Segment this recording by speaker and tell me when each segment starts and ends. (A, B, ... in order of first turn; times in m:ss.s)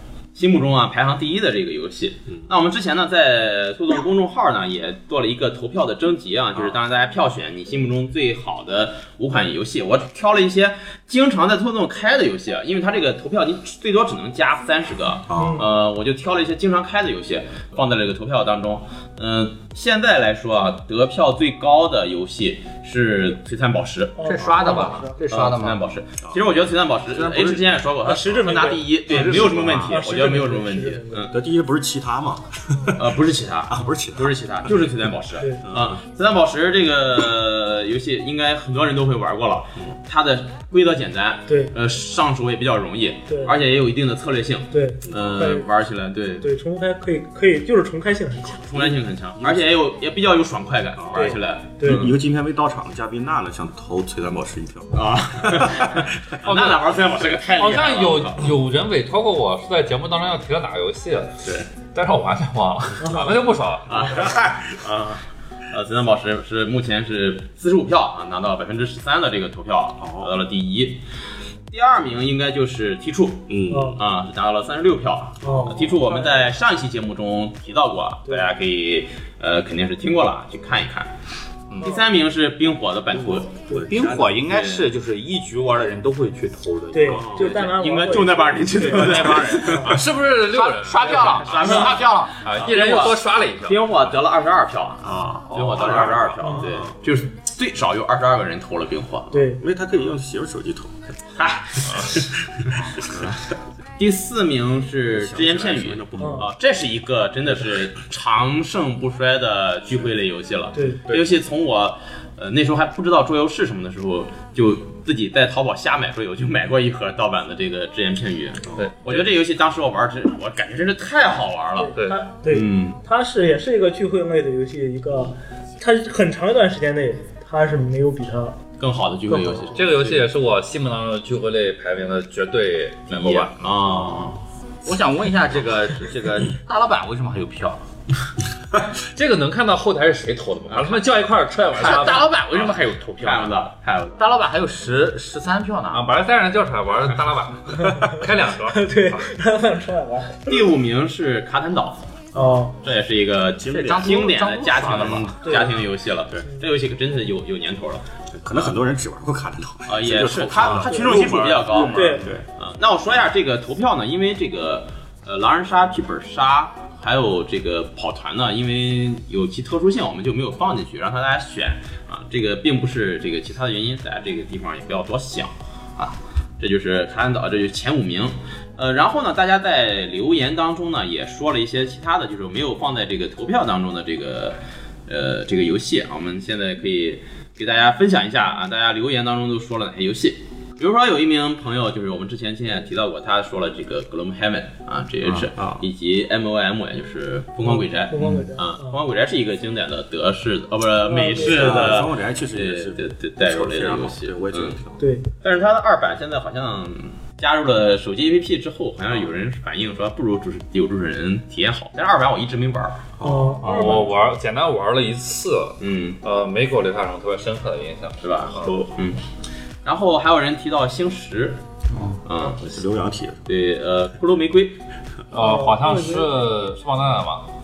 0:00.3-0:31.4 A
0:15.3-0:15.7 B
0:15.4-0:15.6 C
0:24.2-0:25.2 C
0:24.2-0:25.8 D
0:27.3-0:27.5 B
0:28.0-0:31.2 C
0:29.1-0:29.9 B
0:29.2-0:29.9 D
0:31.3-0:34.7 B
0:32.9-0:46.5 A
0:35.6-0:36.0 B
0:43.3-0:43.5 C
0:44.7-0:45.7 C
0:45.1-0:45.4 B
0:46.4-0:48.9 C
0:48.6-0:52.1 A
0:49.4-0:49.6 B
0:51.0-0:56.4 B
0:51.1-0:52.1 C
0:54.9-0:58.5 A
0:56.4-0:56.9 E
0:57.5-1:04.2 E
1:03.0-1:03.3 C
1:03.9-1:11.0 A
1:03.9-1:04.9 B
1:10.0-1:10.3 B
1:11.7-1:21.1 A
1:13.5-1:14.0 B
1:13.7-1:14.0 C
1:15.4-1:16.0 B
1:15.4-1:16.0 C
1:21.8-1:23.5 A
1:23.1-1:24.3 B
1:23.9-1:27.7 D
1:24.5-1:24.8 A
1:26.9-1:29.9 C
1:27.1-1:30.0 A
1:28.9-1:29.9 D
1:29.8-1:31.9 E
1:30.4-1:32.5 D
1:31.0-1:39.4 A
1:32.4-1:34.0 E
1:35.0-1:36.9 B
1:35.5-1:35.9 E
1:36.4-1:36.7 C
1:39.3-1:39.6 C
1:39.6-1:41.0 B
1:41.4-1:42.3 A
1:42.9-1:43.4 B
1:44.0-2:01.9 A
1:45.1-1:46.5 B
1:46.2-1:46.4 C
1:50.7-1:51.0 C
1:58.8-1:59.2 E
2:01.8-2:08.6 C
2:02.5-2:03.0 A
2:08.8-2:10.3 A
2:09.3-2:09.8 C
2:09.7-2:13.7 E
2:13.1-2:14.4 A
2:14.8-2:17.8 D
2:18.8-2:22.3 E
2:20.7-2:21.0 A
2:21.7-2:23.6 D
2:21.8-2:24.2 A
2:24.2-2:26.1 D
2:25.9-2:29.3 E
2:28.7-2:30.5 C
2:30.4-2:32.0 A
2:32.3-2:32.6 B
2:32.3-2:32.8 C
2:32.7-2:38.8 A
2:33.6-2:34.3 B
2:33.7-2:35.6 D
2:34.8-2:35.3 B
2:35.4-2:35.8 C
2:38.3-2:42.4 B
2:39.9-3:24.8 A
2:40.9-2:41.2 C
2:41.1-2:42.2 D
2:41.9-2:42.3 C
3:15.6-3:15.8 B
3:17.6-3:19.0 C
3:18.2-3:18.4 D
3:21.1-3:22.0 C
3:21.3-3:25.0 B
3:25.0-3:25.2 C
3:25.4-3:33.0 A
3:33.2-3:33.9 B
3:33.2-3:34.1 C
3:33.6-3:38.8 E
3:35.8-3:36.2 A
3:38.2-3:39.2 A
3:39.8-3:41.6 A
3:41.9-3:42.2 D
3:42.2-3:42.8 A
3:42.5-3:43.4 B
3:43.5-3:44.8 A
3:45.3-3:47.5 E
3:45.3-3:46.3 C